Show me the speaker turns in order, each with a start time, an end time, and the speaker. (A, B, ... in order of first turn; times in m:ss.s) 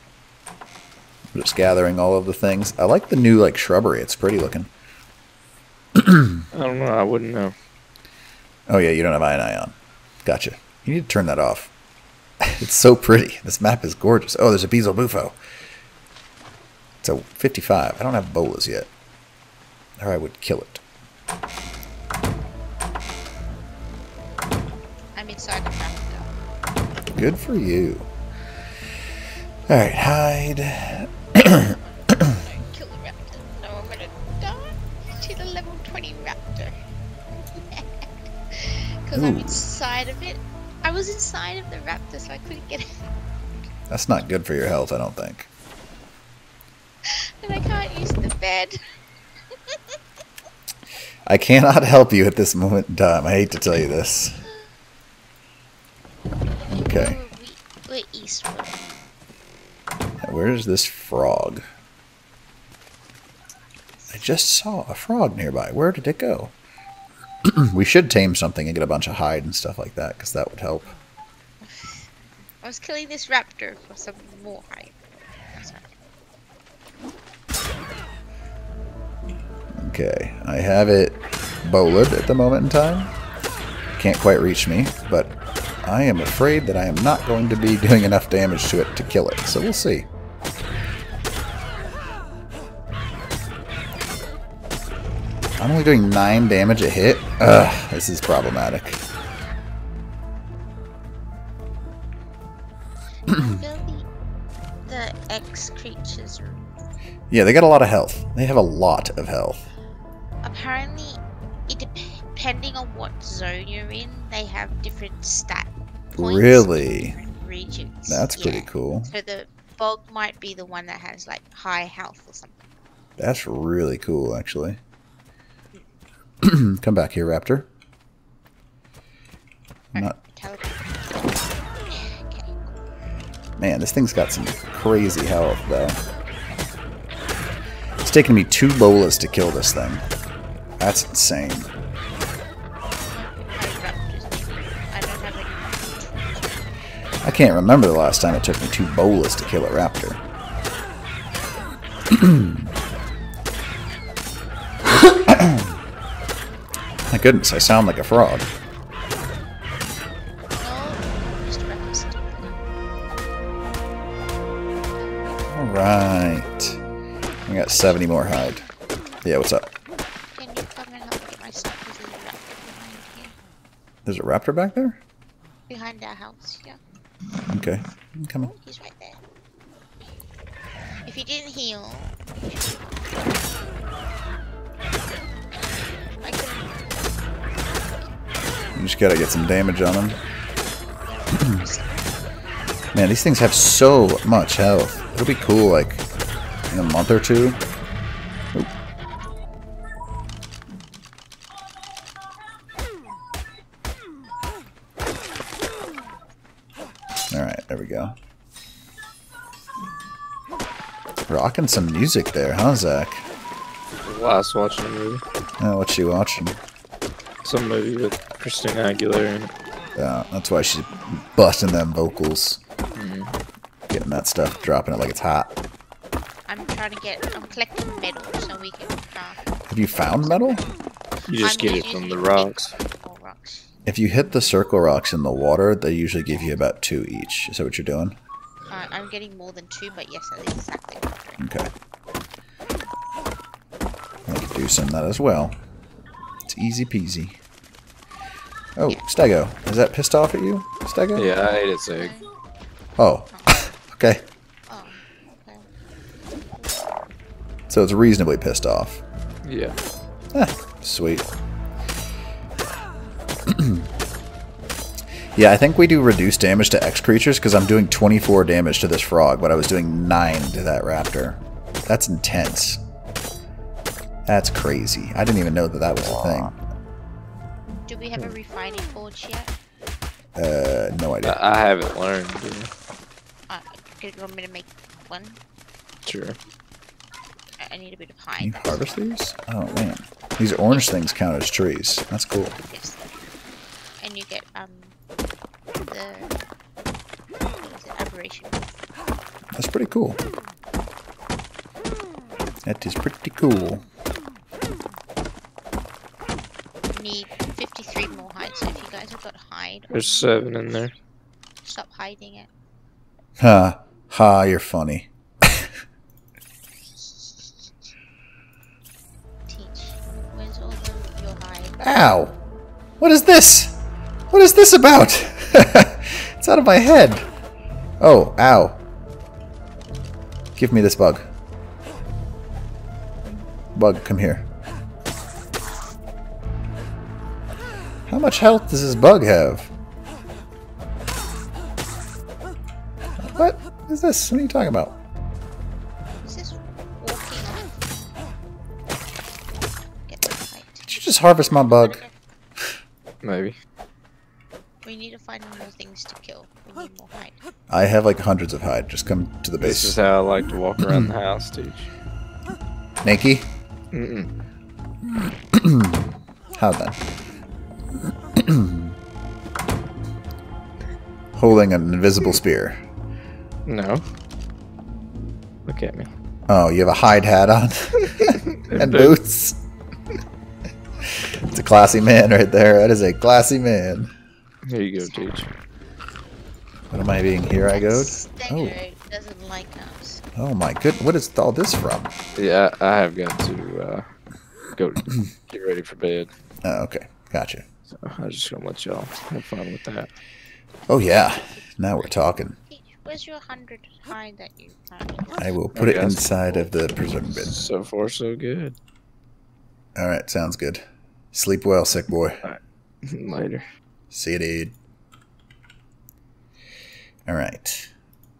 0:01.3-0:04.7 A
0:06.0-0:06.4 A
0:06.5-0:07.5 B
0:08.7-0:11.7 A
0:12.4-0:15.4 A
0:17.0-0:18.9 A
0:20.0-0:20.8 A
0:25.2-0:26.3 C
0:27.1-0:28.1 A
0:29.7-0:32.3 A
0:31.4-0:36.8 C
0:37.4-0:43.1 C
0:39.1-0:39.6 A
0:43.9-0:45.5 A
0:47.0-0:48.8 C
0:49.7-0:50.0 C
0:51.3-0:54.4 A
0:56.7-0:57.2 A
0:56.7-0:58.9 C
1:00.2-1:01.6 A
1:03.9-1:04.2 C
1:04.1-1:06.5 A
1:07.4-1:10.9 A
1:11.6-1:15.0 C
1:15.5-1:15.9 C
1:19.7-1:23.1 A
1:24.0-1:30.1 A
1:35.6-1:39.0 A
1:43.3-1:44.1 C
1:44.8-1:46.6 C
1:47.3-1:49.7 A
1:50.4-2:02.6 C
1:56.2-1:57.2 A
1:58.1-1:59.1 A
2:03.2-2:04.8 A
2:06.4-2:07.7 A
2:10.0-2:11.0 C
2:11.9-2:12.8 C
2:13.6-2:16.0 A
2:18.0-2:20.0 A
2:20.8-2:21.7 A
2:22.9-2:26.7 C
2:27.2-2:30.2 A
2:32.1-2:32.7 A
2:34.9-2:35.7 A
2:37.1-2:38.5 A
2:40.6-2:42.6 C
2:45.5-2:46.8 A
2:47.5-2:48.7 A
2:47.8-2:48.1 C
2:49.2-2:49.7 A
2:50.4-2:53.4 C
2:54.0-2:55.0 A
2:55.7-2:56.8 C
2:57.5-2:58.5 A
2:58.4-2:59.2 C
3:01.1-3:03.4 C
3:06.2-3:07.0 C
3:07.7-3:08.2 C
3:08.7-3:10.2 A
3:11.0-3:12.2 C
3:12.9-3:16.0 A
3:16.7-3:17.6 A
3:27.3-3:28.2 A
3:31.3-3:33.3 A
3:34.1-3:35.2 B
3:35.6-3:36.6 A
3:37.4-3:39.5 B
3:40.0-3:42.6 A
3:43.0-3:43.3 B
3:43.9-3:45.6 A
3:46.5-3:49.4 C
3:49.7-3:50.6 A
3:50.0-3:50.7 C
3:51.3-3:52.7 B
3:51.4-3:53.7 C
3:53.9-3:58.2 A
3:58.7-4:01.4 C
4:01.4-4:01.7 A
4:04.3-4:05.6 A
4:06.5-4:07.4 A
4:08.8-4:11.3 A
4:11.2-4:12.1 B
4:11.9-4:12.3 C
4:13.0-4:14.2 A
4:13.3-4:13.6 C
4:14.7-4:15.6 C
4:17.7-4:19.0 A
4:19.4-4:19.8 B
4:20.3-4:21.3 A
4:23.5-4:23.9 A
4:25.4-4:32.8 A
4:34.3-4:36.6 A
4:37.9-4:39.5 C
4:40.4-4:41.4 A
4:41.2-4:42.7 B
4:43.5-4:45.4 C
4:46.0-4:46.4 B
4:47.6-4:48.9 C
4:48.4-4:52.6 A
4:52.6-4:53.0 C
4:54.0-4:55.0 C
4:55.9-4:56.4 C
4:57.6-4:58.8 C
4:59.6-5:00.2 A
5:02.6-5:03.8 A
5:06.9-5:10.7 C
5:09.9-5:10.9 B
5:11.6-5:12.5 C
5:13.4-5:15.7 A
5:19.5-5:21.8 C
5:21.8-5:22.4 A
5:23.0-5:23.8 A
5:24.3-5:27.3 A
5:28.0-5:28.8 A
5:30.6-5:31.3 A
5:33.7-5:34.4 A
5:38.1-5:39.7 A
5:43.2-5:44.9 A
5:46.2-5:48.0 C
5:50.1-5:52.2 C
5:50.9-5:52.0 A
5:53.2-5:53.6 B
5:54.8-5:57.4 C
5:57.7-6:00.0 A
5:59.6-6:01.9 B
6:03.0-6:03.5 A
6:03.9-6:04.3 B
6:05.5-6:07.0 A
6:08.4-6:09.0 A
6:11.4-6:12.8 A
6:13.7-6:14.0 B
6:15.7-6:16.1 B
6:16.5-6:19.6 A
6:18.2-6:19.2 B
6:21.1-6:24.1 A
6:24.7-6:25.5 B
6:24.9-6:25.5 C
6:26.9-6:28.8 A
6:27.7-6:30.2 C
6:30.4-6:32.1 A
6:32.4-6:34.1 B
6:34.8-6:36.3 B
6:36.6-6:37.6 A
6:37.9-6:40.1 B
6:40.9-6:42.6 A
6:42.7-6:45.5 C
6:45.4-6:47.7 A
6:45.8-6:46.6 B
6:47.3-6:48.8 B
6:50.0-6:52.4 A
6:52.4-6:53.7 B
6:54.1-6:54.7 A
6:57.3-6:57.9 A